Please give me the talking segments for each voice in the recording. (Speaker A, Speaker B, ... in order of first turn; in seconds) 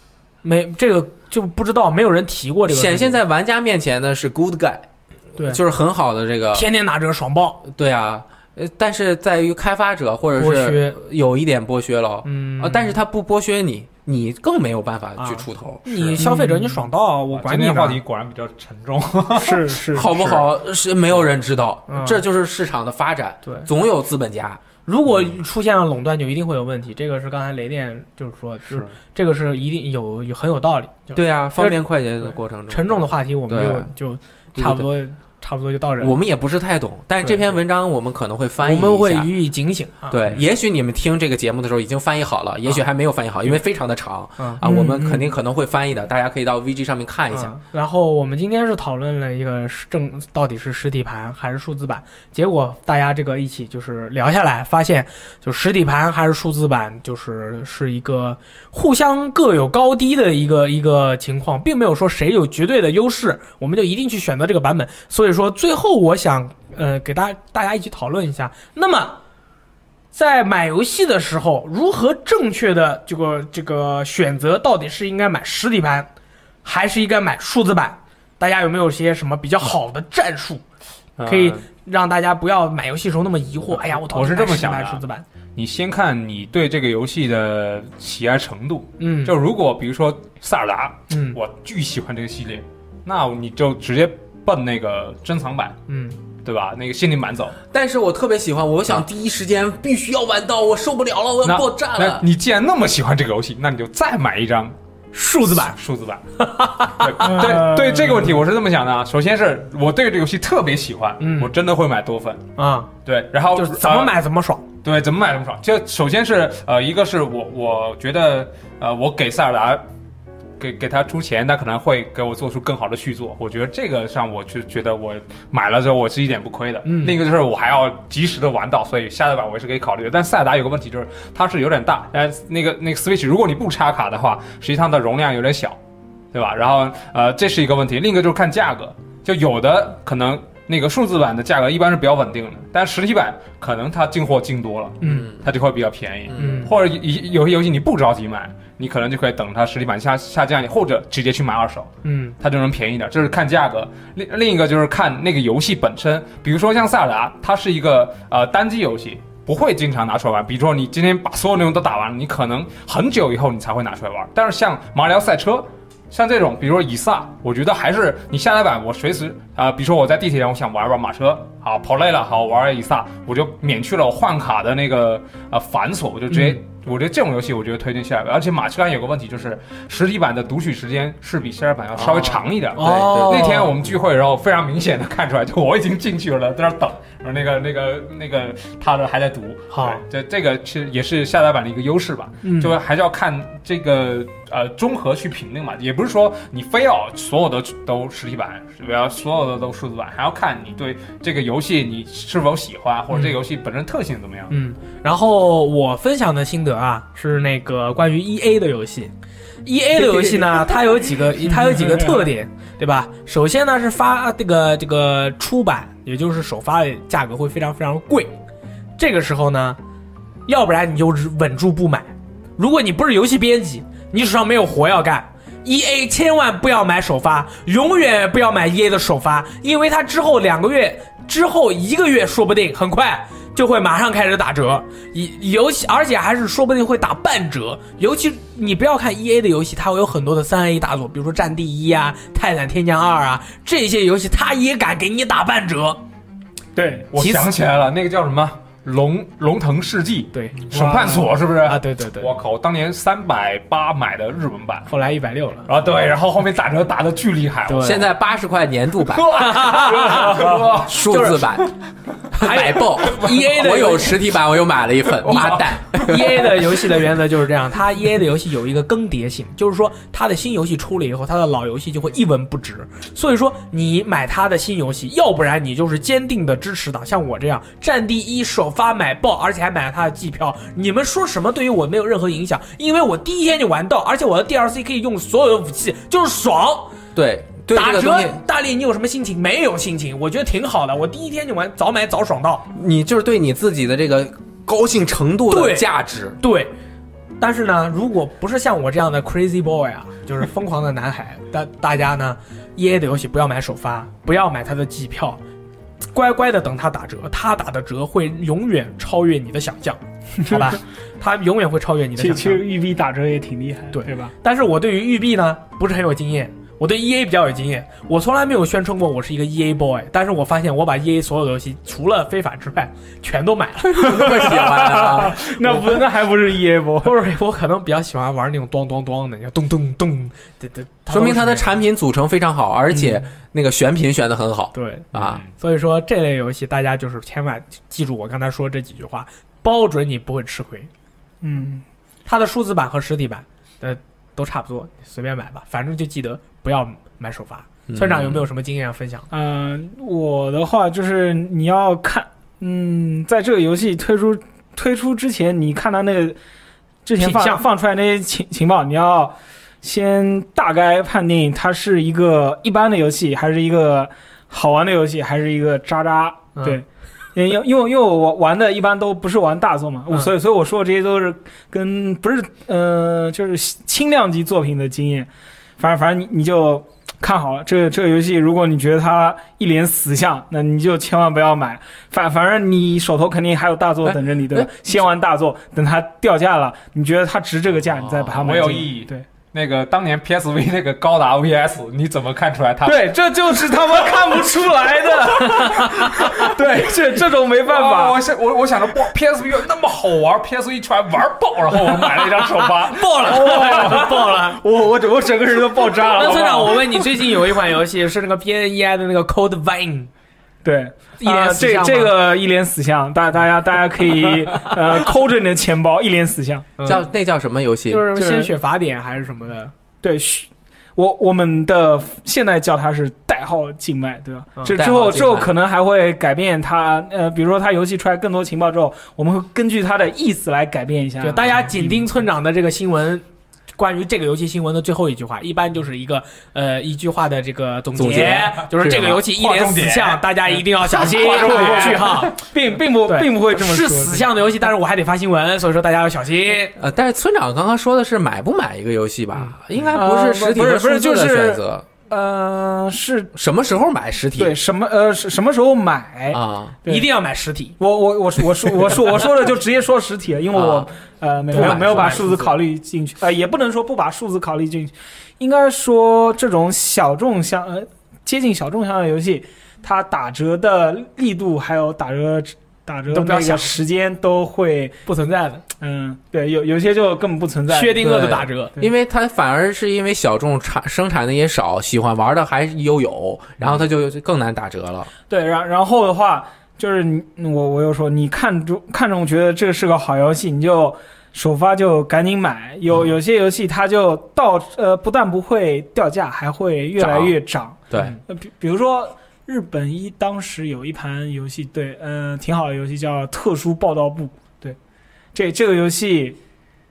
Speaker A: 0.4-3.2, 6.5-7.6, 10.4-11.0, 12.2-13.0, 15.2-18.0, 21.9-22.2, 24.8-31.8, 32.7-36.2, 38.6-40.4, 47.3-69.2, 70.1-76.1, 76.6-80.6, 81.2-85.2, 89.0-89.3, 91.1-91.4, 95.9-96.2, 105.1-105.8, 106.3-107.6, 111.2-111.5, 112.6-112.9, 113.5-114.6, 126.8-127.2, 145.0-145.3, 146.3-146.7, 152.0-152.3, 176.3-176.6, 182.8-183.7, 189.7-190.0, 192.4-192.7, 203.1-203.4, 204.5-209.1, 209.6-218.4, 219.0-219.8, 220.5-246.0, 247.1-247.5, 250.3-250.6, 251.6-252.3, 254.9-255.7, 257.7-258.0, 259.3-261.5, 262.3-264.2, 265.2-286.9, 287.7-292.7, 295.5-295.9, 296.4-296.7, 297.4-305.4, 306.1-312.6, 313.9-324.8, 325.6-326.0, 327.0-331.7, 332.9-333.2, 334.7-340.9, 342.2-349.3, 357.2-357.6, 366.5-366.8, 402.0-404.6, 406.1-410.1, 411.2-412.2, 416.8-417.1, 417.9-419.7, 431.2-433.2, 433.8-442.4, 443.1-446.7, 456.8-457.8, 461.5-462.4, 473.1-473.8, 475.0-475.6, 477.7-478.7, 497.9-498.2
Speaker B: 2.7-6.7, 7.6-16.3, 19.9-24.6, 31.1-33.9, 34.5-34.9, 36.0-39.3, 40.1-47.6, 97.7-102.2, 145.0-145.5, 146.3-146.6, 181.9-183.6, 257.8-261.7, 262.3-266.8, 287.1-288.4, 292.7-296.4, 323.8-325.6, 331.1-335.4, 347.9-348.5, 384.0-384.9, 416.8-418.1, 424.7-425.5, 437.9-439.2, 446.8-451.9, 453.3-454.6, 456.3-456.8, 460.5-460.9, 461.5-462.5, 478.0-485.1, 497.0-497.3, 497.9-498.2
Speaker C: 16.2-16.7, 19.3-20.1, 44.6-45.3, 107.2-108.4, 209.9-210.7, 211.5-212.3, 246.7-247.1, 250.7-251.3, 310.4-310.7, 312.1-314.3, 324.1-327.1, 341.4-341.8, 349.3-356.4, 357.0-389.2, 392.8-398.2, 403.2-406.8, 410.6-416.7, 418.1-418.5, 420.0-431.6, 441.1-444.3, 449.9-453.3, 454.4-457.1, 457.8-475.0, 475.8-478.9, 485.3-504.8, 505.3-506.4
Speaker D: 17.3-20.4, 28.6-28.9, 81.2-81.6, 83.7-85.0, 85.5-95.8, 96.4-97.6, 101.4-104.7, 105.5-106.2, 106.9-112.5, 113.0-114.2, 114.8-119.8, 120.6-135.8, 136.3-204.6, 247.1-254.9, 255.7-258.0, 259.1-261.0, 265.2-265.6, 335.1-335.5, 388.1-404.3, 405.5-407.1, 439.2-442.3